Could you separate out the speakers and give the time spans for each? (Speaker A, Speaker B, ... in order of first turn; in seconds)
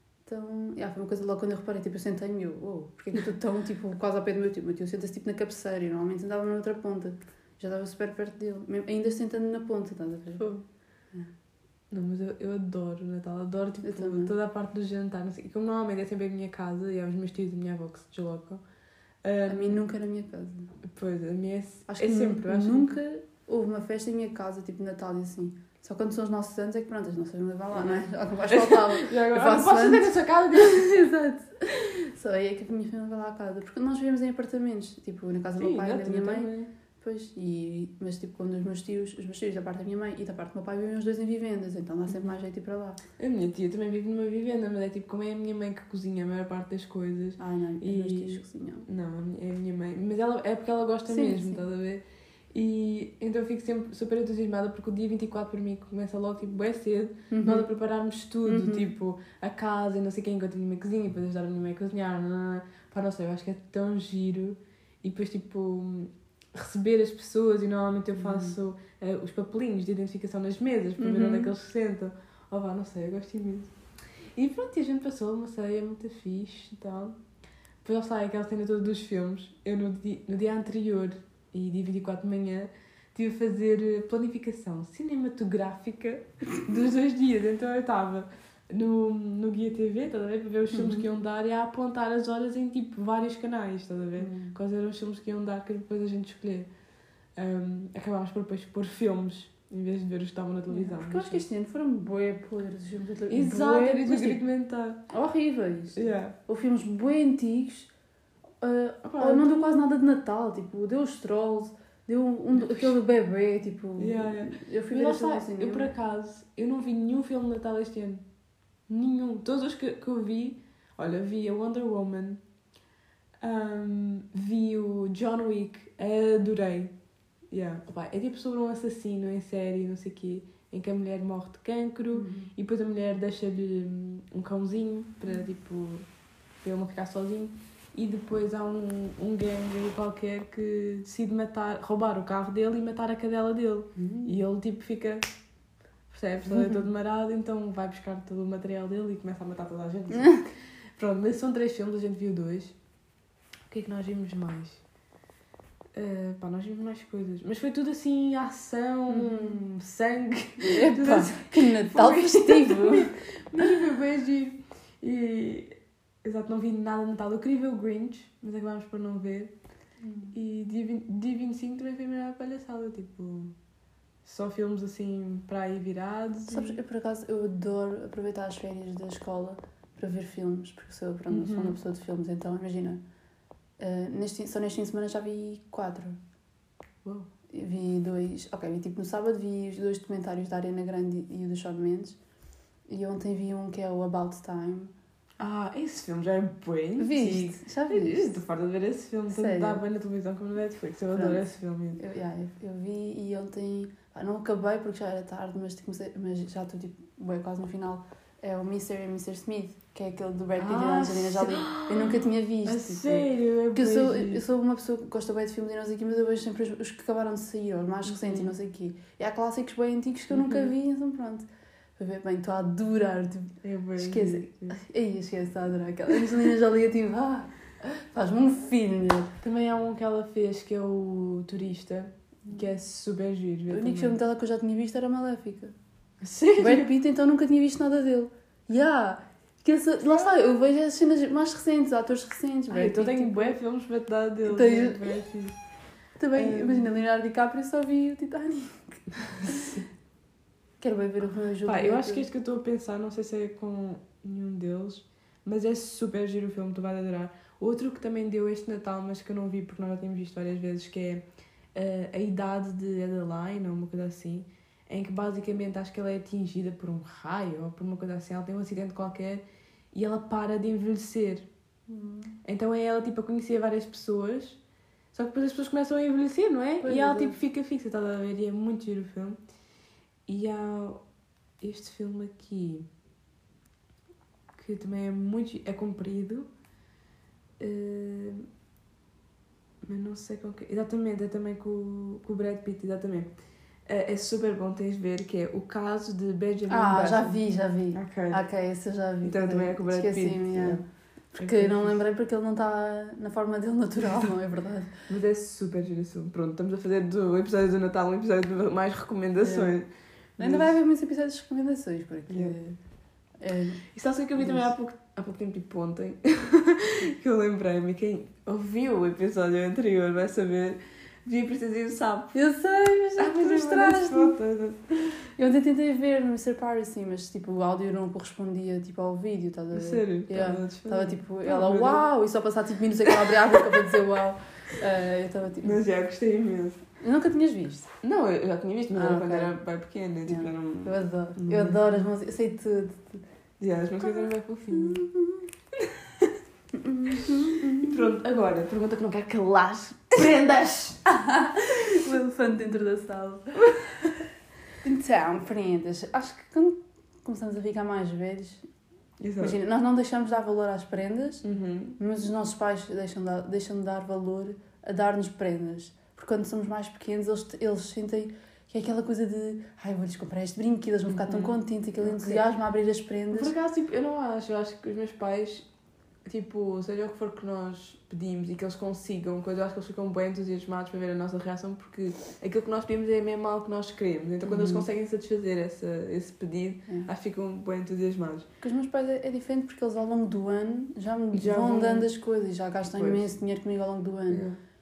Speaker A: 0.2-10.5, 13.8-14.3, 19.5-20.7, 21.9-43.0, 47.4-48.9, 51.1-51.6, 57.3-57.7, 58.5-58.9, 68.2-68.5, 71.0-71.5, 90.7-91.0, 94.2-94.5, 100.7-104.4, 105.1-107.9, 108.6-115.9, 132.1-132.5, 144.0-144.4, 146.5-146.8, 150.1-150.4, 159.1-159.6, 160.7-163.1, 170.0-170.3, 176.5-183.0, 183.8-186.2, 187.5-192.2, 192.9-194.9, 197.0-198.4, 199.3-199.8, 201.1-201.4, 202.0-221.4, 222.0-229.3, 233.7-235.7, 236.6-243.6, 244.5-245.1, 246.2-249.7, 250.8-252.2, 271.9-272.4, 276.8-277.4, 296.7-304.9, 309.4-309.8, 310.4-312.8, 313.4-314.7, 322.3-324.4, 325.4-335.8, 337.0-337.9, 338.9-339.5, 340.3-343.2, 344.0-345.4, 346.7-348.0, 351.1-353.8, 354.8-358.6, 359.4-361.4, 362.0-373.5, 384.4-384.9, 388.6-394.5
Speaker B: 10.4-10.6, 11.9-18.6, 19.2-19.8, 20.9-22.9, 27.8-30.9, 35.6-36.7, 43.2-73.7, 74.3-77.2, 77.8-96.7, 97.4-101.4, 103.3-105.0, 106.0-106.3, 109.0-109.8, 112.5-113.0, 114.0-118.2, 118.9-122.4, 123.4-126.9, 127.5-136.1, 136.6-145.2, 146.1-152.8, 153.7-154.8, 155.9-169.5, 170.3-173.5, 174.2-176.8, 181.3-181.8, 195.4-202.0, 210.6-214.4, 218.1-218.5, 220.3-220.7, 223.6-224.8, 229.4-234.2, 236.2-236.9, 242.7-245.6, 246.3-246.9, 249.4-249.8, 251.6-261.2, 261.8-271.5, 272.4-274.6, 275.1-279.4, 280.3-281.0, 281.6-282.9, 284.5-286.5, 287.6-288.4, 289.8-293.3, 293.9-297.4, 297.9-298.4, 299.2-302.0, 305.1-310.7, 312.3-312.6, 313.9-322.4, 323.2-325.1, 329.7-332.0, 335.6-336.8, 338.0-341.8, 343.6-345.0, 345.8-346.4, 347.1-351.0, 359.2-359.6, 361.4-362.0, 371.1-372.4, 373.3-375.7, 376.2-388.5, 391.3-392.1, 393.0-393.3, 394.3-394.6